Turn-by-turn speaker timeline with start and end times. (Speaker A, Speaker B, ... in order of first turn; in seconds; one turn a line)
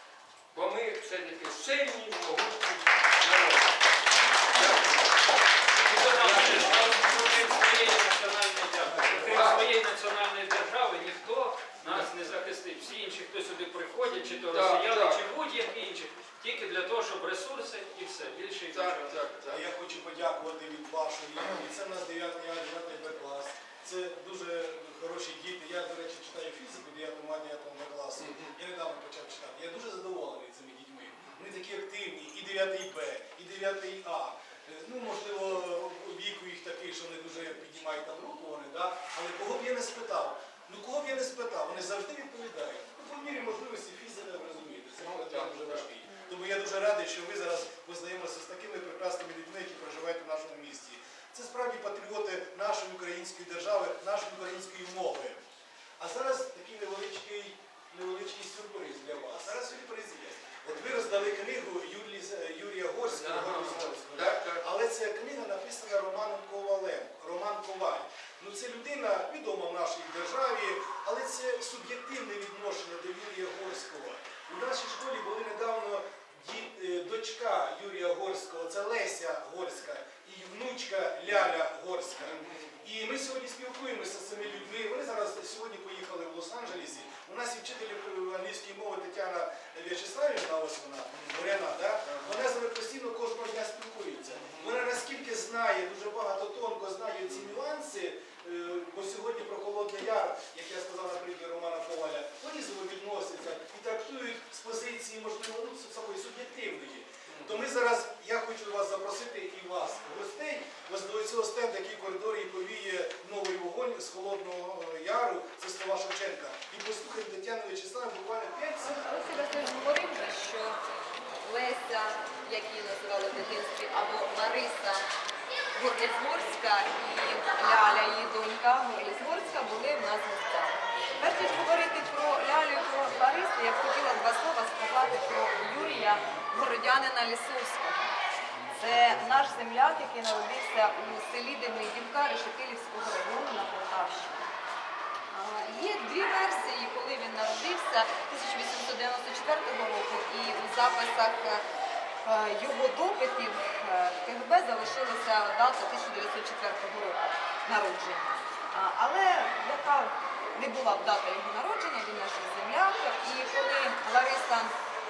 Speaker A: 0.5-3.8
Speaker A: 4.5-5.3
Speaker B: 5.8-19.2
Speaker A: 6.0-7.4
Speaker C: 9.0-9.4
Speaker A: 9.2-9.7
Speaker A: 14.5-15.2
Speaker A: 18.7-19.6
Speaker C: 19.5-55.5
Speaker A: 45.0-45.9
Speaker C: 56.0-119.0
Speaker A: 63.1-64.6
Speaker A: 82.3-82.7
Speaker A: 94.5-94.7
Speaker A: 107.3-107.6
Speaker D: 118.8-120.8
Speaker D: 121.4-125.0
Speaker D: 125.8-138.2
Speaker D: 138.7-144.5
Speaker D: 145.3-151.6
Speaker D: 152.2-164.7